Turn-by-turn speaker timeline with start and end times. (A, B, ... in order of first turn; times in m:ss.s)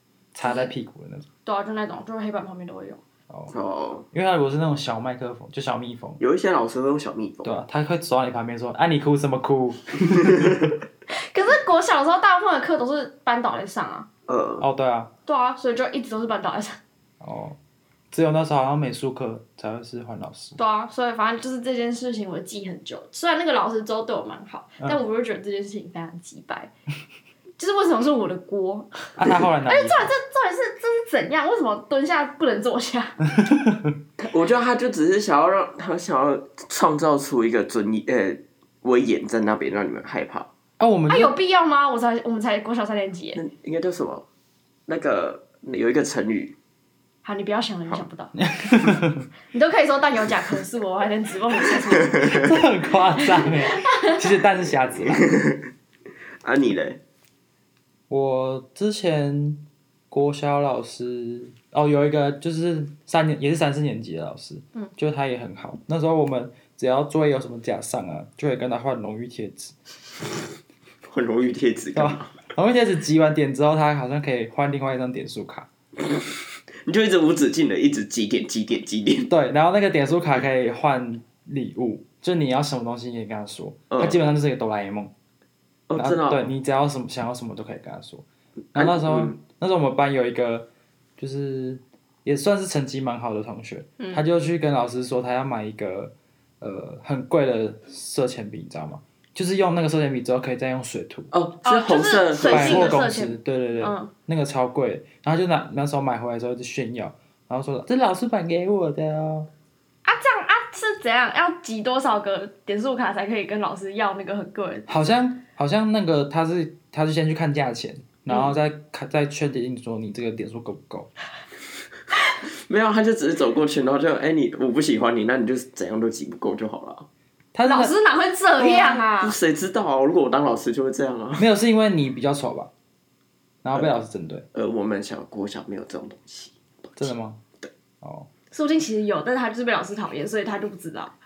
0:00.3-0:01.2 A
0:00.4-0:00.7 B
0:01.4-0:03.0 B
0:03.5-0:04.0 C
0:04.1-0:06.2 A
0:06.2-0:07.6 C
0:07.4-0:10.6 A
0:11.1-0:14.1 B
0:14.3-0:14.6 C
0:14.6-0:15.1 A
0:15.3-0:16.8 B
0:17.2-0:17.6 A
0:18.1-0:20.6 A
0:20.6-0:26.7 B
0:27.6-0:29.1 B
0:29.2-0:30.1 A
0:29.7-0:33.3 B
0:33.4-0:34.0 A
0:34.2-0:40.5 C
0:40.8-0:41.3 A
0:41.1-0:43.4 B
0:43.3-0:44.2 C
0:44.9-0:46.6 C
0:47.2-0:48.4 B
0:48.4-0:49.3 A
0:49.5-0:52.4 B
0:52.2-0:55.3 A
0:53.2-0:54.2 B
0:55.1-0:55.6 C
0:56.4-0:57.0 C
0:58.1-1:09.7 A
1:11.0-1:12.4 C
1:11.9-1:15.7 A
1:16.0-1:16.3 C
1:16.8-1:19.3 C
1:19.3-1:25.1 A
1:23.9-1:24.2 C
1:25.9-1:26.4 C
1:26.0-1:41.3 A
1:28.7-1:29.4 C
1:41.3-1:43.0 C
1:41.6-1:44.1 B
1:42.4-1:49.5 A
1:50.0-1:54.9 B
1:54.9-2:01.1 A
2:02.7-2:07.1 C
2:07.5-2:07.9 A
2:07.6-2:09.4 B
2:08.6-2:09.0 A
2:09.1-2:11.4 C
2:11.4-2:12.7 A
2:13.6-2:14.4 A
2:14.5-2:17.0 C
2:17.0-2:17.4 A
2:18.0-2:18.3 A
2:18.5-2:21.1 B